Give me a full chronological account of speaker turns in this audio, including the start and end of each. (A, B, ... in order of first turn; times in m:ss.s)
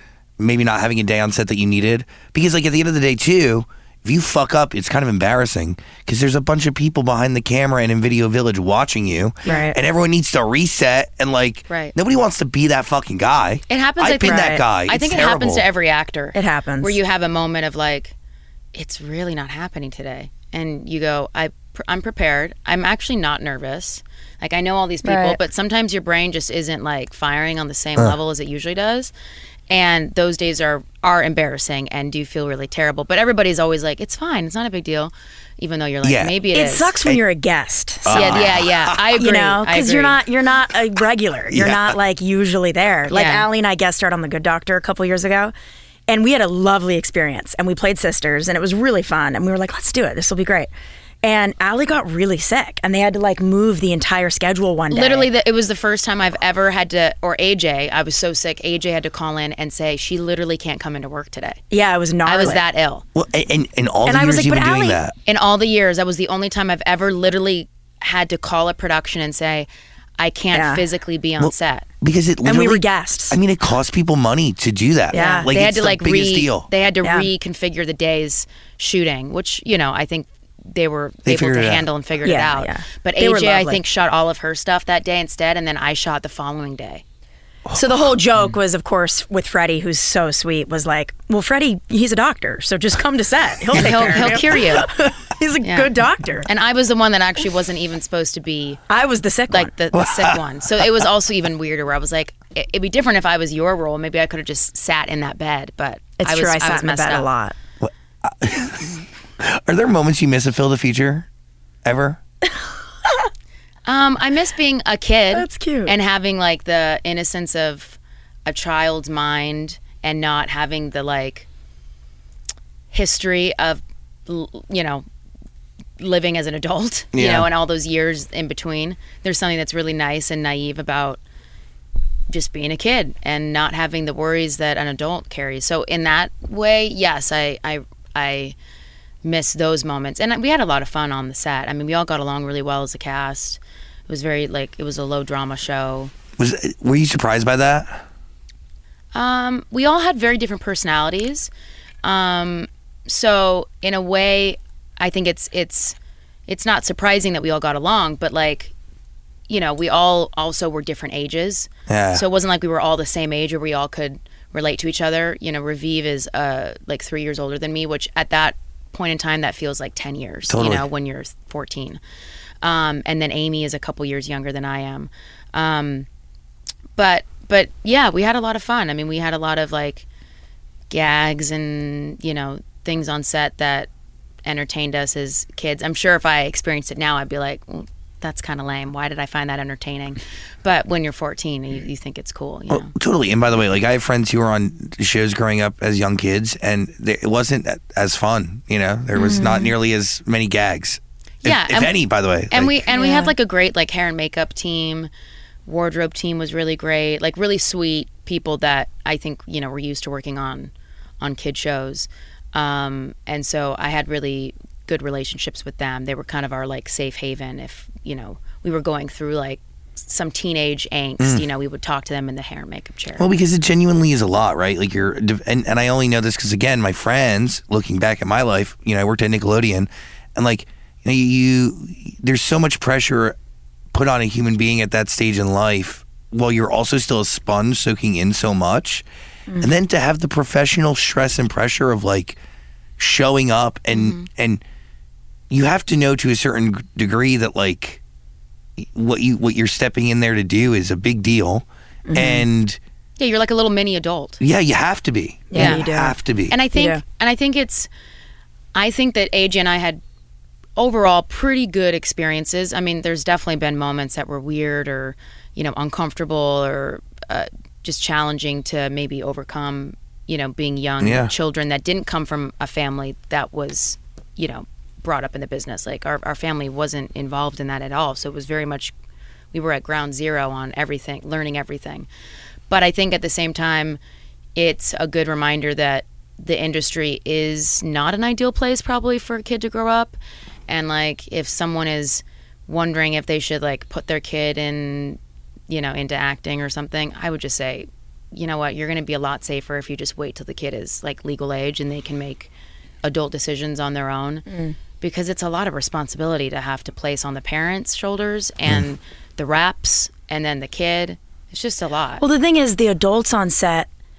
0:00.4-0:15.6 A
0:09.4-0:09.8 B
0:11.7-0:11.9 C
0:13.7-0:18.1 C
0:14.2-0:14.6 B
0:16.3-0:17.0 B
0:18.7-0:29.1 C
0:25.0-0:25.4 B
0:29.7-0:37.0 C
0:36.0-0:36.3 A
0:36.5-0:45.5 B
0:38.0-0:39.0 A
0:38.1-0:40.2 C
0:41.5-0:41.9 A
0:43.1-0:43.4 C
0:46.1-0:50.7 B
0:51.2-0:55.3 B
0:54.9-1:01.6 C
1:01.7-1:02.6 B
1:02.2-1:03.0 C
1:03.1-1:05.1 A
1:04.0-1:05.0 B
1:05.2-1:11.8 C
1:10.5-1:10.8 B
1:11.4-1:16.7 A
1:12.4-1:13.4 B
1:15.1-1:15.5 B
1:15.1-1:27.0 C
1:17.0-1:17.3 B
1:21.2-1:21.9 A
1:22.2-1:23.8 B
1:27.7-1:36.5 B
1:33.7-1:34.9 C
1:35.6-1:35.9 C
1:36.4-1:38.8 C
1:38.9-1:39.7 B
1:39.5-1:47.3 C
1:39.9-1:41.0 A
1:46.2-1:47.6 B
1:47.8-1:51.2 A
1:51.8-1:52.2 A
1:53.8-2:01.5 C
1:55.3-1:55.9 B
2:02.9-2:05.0 C
2:06.0-2:11.2 C
2:07.1-2:07.5 A
2:12.3-2:18.5 C
2:19.2-2:26.1 C
2:26.4-2:28.0 A
2:29.1-2:31.5 C
2:32.0-2:36.0 C
2:36.5-2:38.7 C
2:39.5-2:52.0 C
2:41.9-2:42.2 A
2:50.5-2:50.8 A
2:52.6-2:56.1 C
2:57.0-3:00.0 C
3:00.9-3:03.9 C
3:04.4-3:12.9 C
3:12.7-3:22.8 A
3:19.1-3:19.7 B
3:21.4-3:22.0 C
3:22.5-3:25.1 C
3:22.9-3:23.3 B
3:25.6-3:43.3 C
3:43.2-3:53.3 A
3:53.9-3:59.0 A
3:59.6-4:02.4 A
4:03.0-4:04.6 A
4:03.9-4:04.2 C
4:05.5-4:08.0 A
4:08.8-4:12.8 A
4:12.1-4:12.5 B
4:13.2-4:14.4 C
4:14.4-4:16.5 A
4:15.5-4:16.2 B
4:15.5-4:15.9 C
4:16.5-4:17.9 C
4:16.7-4:17.0 B
4:18.7-4:20.0 C
4:20.8-4:38.9 C
4:31.0-4:31.3 A
4:39.5-4:42.1 C
4:42.7-4:44.0 C
4:44.6-4:50.2 C
4:50.7-5:02.5 C
5:03.0-5:04.4 C
5:04.5-5:04.8 B
5:05.0-5:12.2 C
5:12.2-5:13.9 B